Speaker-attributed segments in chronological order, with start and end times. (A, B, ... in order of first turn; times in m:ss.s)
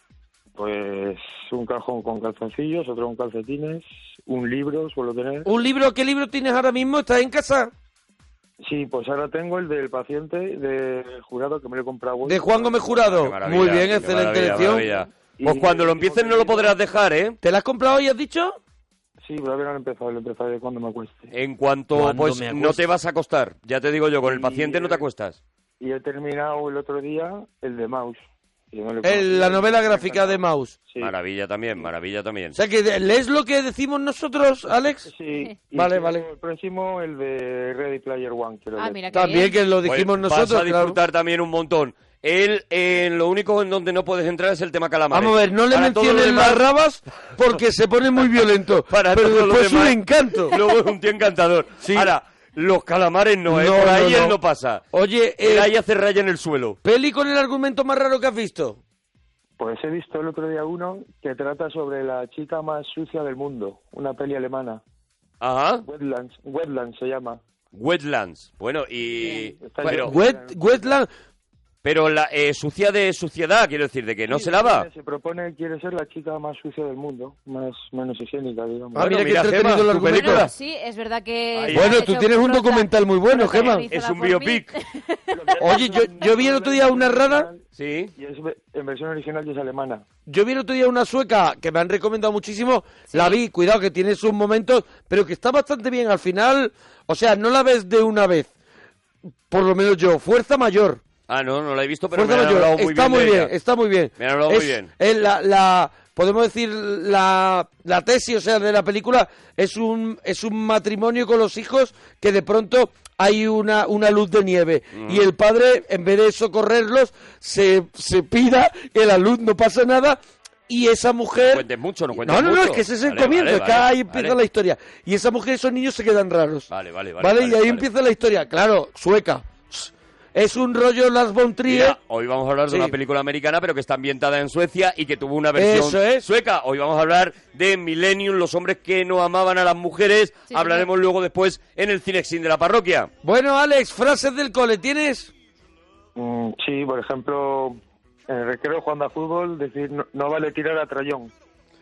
0:00.6-0:05.5 A
0:05.4-0:07.7 B
0:08.6-0:13.0 A
0:12.2-0:14.9 B
0:13.1-0:17.4 C
0:15.4-0:16.8 A
0:17.4-0:18.6 B
0:19.2-0:21.3 A
0:21.3-0:25.4 C
0:21.9-0:22.8 B
0:24.2-0:25.0 A
0:25.8-0:31.1 A
0:29.0-0:30.8 B
0:31.0-0:32.6 C
0:32.5-0:35.1 B
0:35.1-0:39.0 A
0:35.7-0:36.3 B
0:38.8-0:39.6 D
0:39.1-0:41.0 B
0:39.8-0:46.6 C
0:45.1-0:50.6 B
0:48.9-0:54.8 C
0:51.8-0:52.1 B
0:53.5-0:54.4 B
0:54.9-0:55.7 B
0:55.4-0:56.8 C
0:56.8-0:58.8 B
0:59.6-1:04.8 A
1:05.4-1:05.8 C
1:05.8-1:07.4 A
1:07.7-1:10.2 C
1:09.2-1:11.0 A
1:09.8-1:11.1 B
1:11.8-1:14.9 C
1:14.3-1:19.1 A
1:19.0-1:20.5 B
1:19.0-1:20.5 C
1:20.1-1:25.5 D
1:21.6-1:22.0 C
1:21.7-1:23.9 B
1:23.6-1:24.7 C
1:25.3-1:27.6 A
1:25.6-1:27.5 B
1:27.8-1:28.1 C
1:28.2-1:30.0 A
1:30.3-1:38.5 B
1:33.1-1:33.4 D
1:39.5-1:41.0 B
1:41.3-1:43.5 C
1:42.1-2:01.6 B
1:44.2-1:44.9 C
1:54.9-1:55.3 C
2:01.4-2:04.4 C
2:02.2-2:06.7 B
2:06.7-2:07.9 C
2:07.2-2:12.0 B
2:11.7-2:23.1 C
2:12.7-2:12.9 B
2:15.6-2:16.3 B
2:20.5-2:20.9 D
2:23.2-2:25.3 B
2:26.2-2:31.3 A